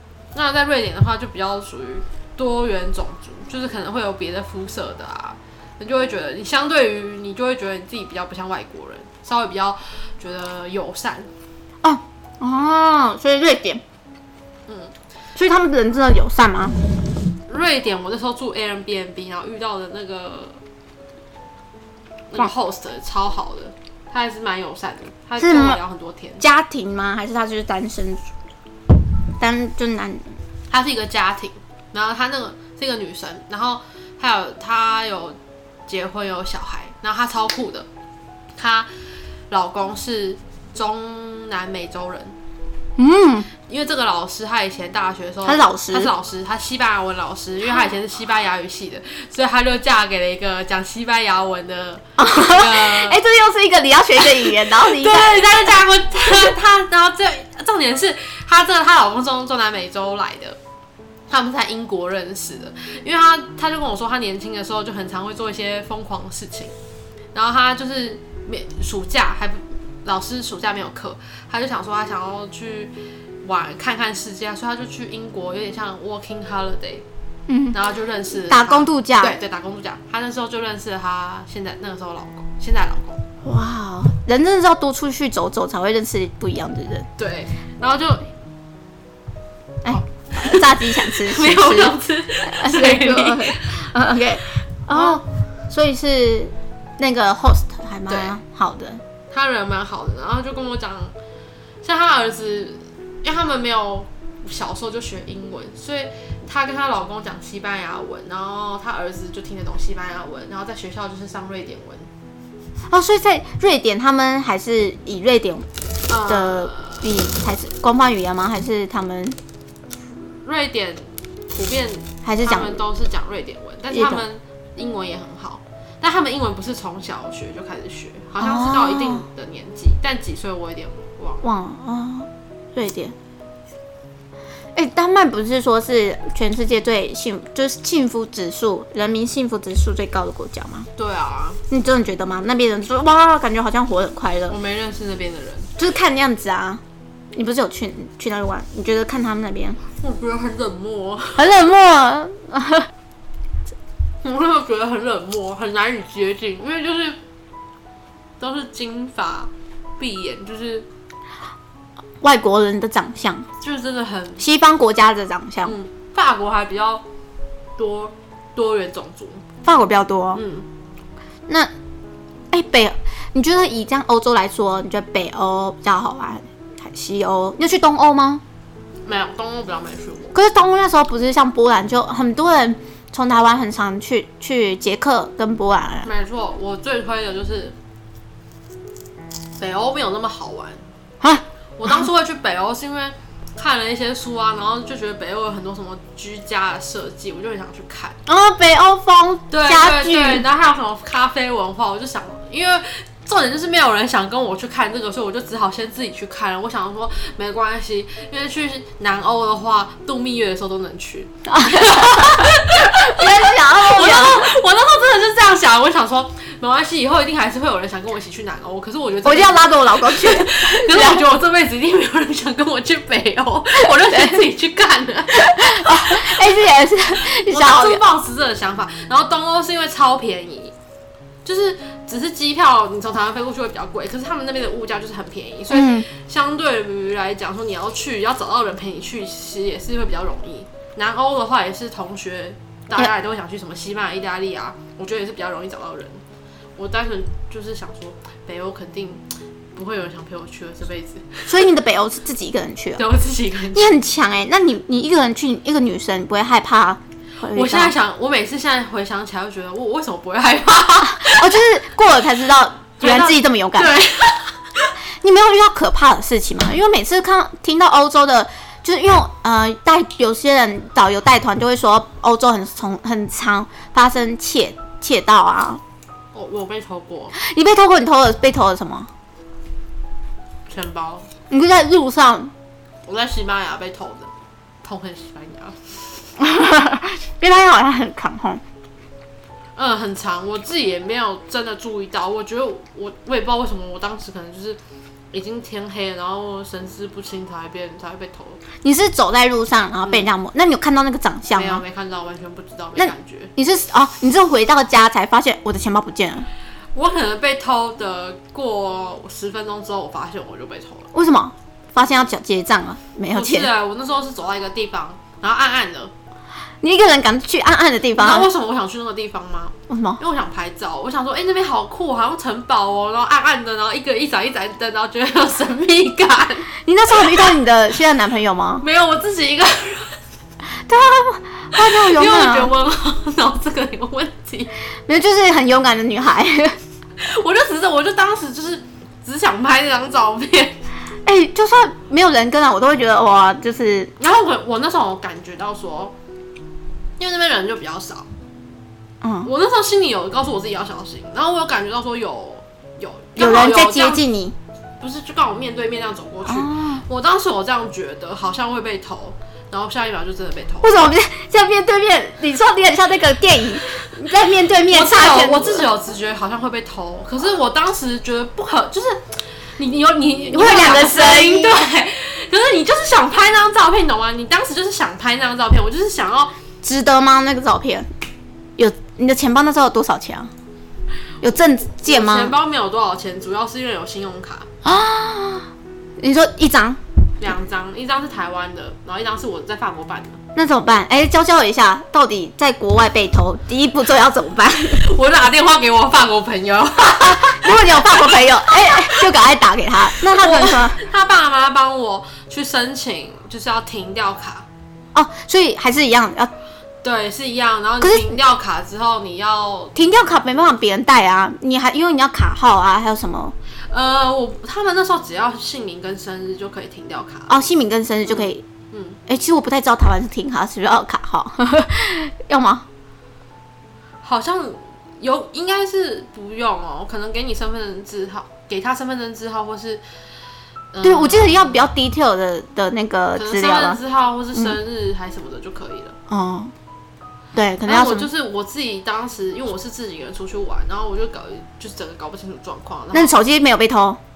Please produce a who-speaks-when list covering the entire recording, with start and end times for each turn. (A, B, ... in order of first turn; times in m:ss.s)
0:00.3-0:11.3 A
0:11.8-0:13.8 B
0:14.7-0:14.9 A
0:15.4-0:16.8 B
0:17.5-0:20.6 A
0:22.3-0:26.4 A
0:25.4-0:25.8 B
0:26.4-0:28.2 B
0:29.4-0:30.3 B
0:30.7-0:37.9 A
0:38.6-0:38.9 A
0:39.5-0:42.4 A
0:43.0-0:43.5 B
0:43.7-0:53.2 A
0:45.5-0:46.1 B
0:52.2-0:55.5 B
0:54.6-1:00.6 A
1:01.3-1:06.7 A
1:07.3-1:17.0 A
1:17.5-1:17.8 B
1:17.7-1:23.2 A
1:18.5-1:19.4 B
1:23.4-1:27.1 B
1:27.2-1:28.3 A
1:29.8-1:39.0 B
1:29.9-1:33.9 A
1:34.9-1:35.2 A
1:38.1-1:38.4 A
1:39.3-1:41.1 A
1:41.8-1:52.1 A
1:52.9-1:55.7 B
1:56.1-1:57.1 A
1:56.2-1:59.4 B
2:00.2-2:11.5 A
2:02.2-2:02.8 B
2:03.9-2:04.2 B
2:08.4-2:09.2 B
2:11.4-2:13.2 B
2:14.8-2:20.9 B
2:21.0-2:21.6 A
2:21.7-2:24.6 B
2:24.5-2:25.7 A
2:25.8-2:26.8 B
2:27.4-2:29.8 B
2:30.0-2:31.5 A
2:31.4-2:32.9 B
2:34.2-2:37.2 A
2:38.4-2:40.9 A
2:42.2-2:43.5 B
2:43.6-2:44.4 A
2:44.4-2:45.8 B
2:45.7-2:47.0 A
2:47.8-2:49.4 A
2:49.6-2:50.4 B
2:50.4-2:50.7 A
2:51.5-2:51.7 B
2:52.5-2:58.4 B
2:59.0-3:00.4 A
3:00.3-3:06.1 B
3:06.0-3:07.8 A
3:09.6-3:10.8 A
3:11.2-3:12.1 B
3:11.8-3:18.2 A
3:18.3-3:20.4 B
3:19.5-3:46.5 A
3:31.5-3:34.5 B
3:39.2-3:41.2 B
3:43.8-3:44.4 B
3:45.3-3:48.0 B
3:47.2-3:50.7 A
3:51.4-4:06.2 A
3:55.7-3:56.1 B
4:06.8-4:09.2 A
4:09.8-4:11.6 A
4:11.5-4:13.0 B
4:13.0-4:13.9 A
4:13.7-4:18.0 B
4:17.5-4:21.6 A
4:21.1-4:24.0 B
4:23.0-4:24.9 A
4:25.2-4:35.8 B
4:36.3-4:37.4 A
4:37.3-4:39.1 B
4:40.7-4:41.3 A
4:41.5-4:42.5 B
4:43.0-4:44.3 A
4:44.8-4:46.0 A
4:46.4-4:48.6 B
4:49.8-4:54.8 A
4:55.3-4:58.6 A
4:58.8-5:01.8 B
5:00.0-5:00.3 A
5:01.5-5:03.5 A
5:03.0-5:06.5 B
5:07.0-5:11.1 A
5:11.1-5:13.7 B
5:13.3-5:16.1 A
5:16.8-5:18.5 B
5:18.2-5:27.5 A
5:19.9-5:20.2 B
5:26.8-5:28.8 B
5:28.8-5:30.2 A
5:30.9-5:32.7 B
5:31.7-5:34.7 A
5:35.1-5:36.8 B
5:37.2-5:40.8 A
5:41.2-5:44.1 B
5:44.2-5:46.1 A
5:47.2-5:48.3 A
5:49.2-5:49.5 B
5:49.4-5:54.2 A
5:53.4-5:54.6 B
5:55.0-6:01.0 A
5:56.5-5:57.0 B
6:00.8-6:05.9 B
6:04.9-6:16.5 A
6:10.5-6:11.8 B
6:16.8-6:18.1 B
6:18.8-6:20.5 B
6:21.4-6:22.5 B
6:22.0-6:24.7 A
6:24.8-6:27.0 B
6:27.4-6:30.4 A
6:30.6-6:35.0 B
6:34.9-6:39.3 A
6:37.2-6:41.0 B
6:40.2-6:44.7 A
6:45.1-6:46.5 B
6:47.0-6:50.0 A
6:48.0-6:48.4 B
6:50.0-6:53.6 B
6:53.9-6:57.6 A
6:57.5-6:58.6 B
6:58.3-6:59.2 A
6:59.3-7:02.9 B
7:04.2-7:10.0 A
7:10.9-7:11.9 A
7:11.0-7:14.0 B
7:13.4-7:16.2 A
7:16.3-7:16.7 B
7:17.6-7:18.3 B
7:17.9-7:23.4 A
7:23.1-7:24.2 B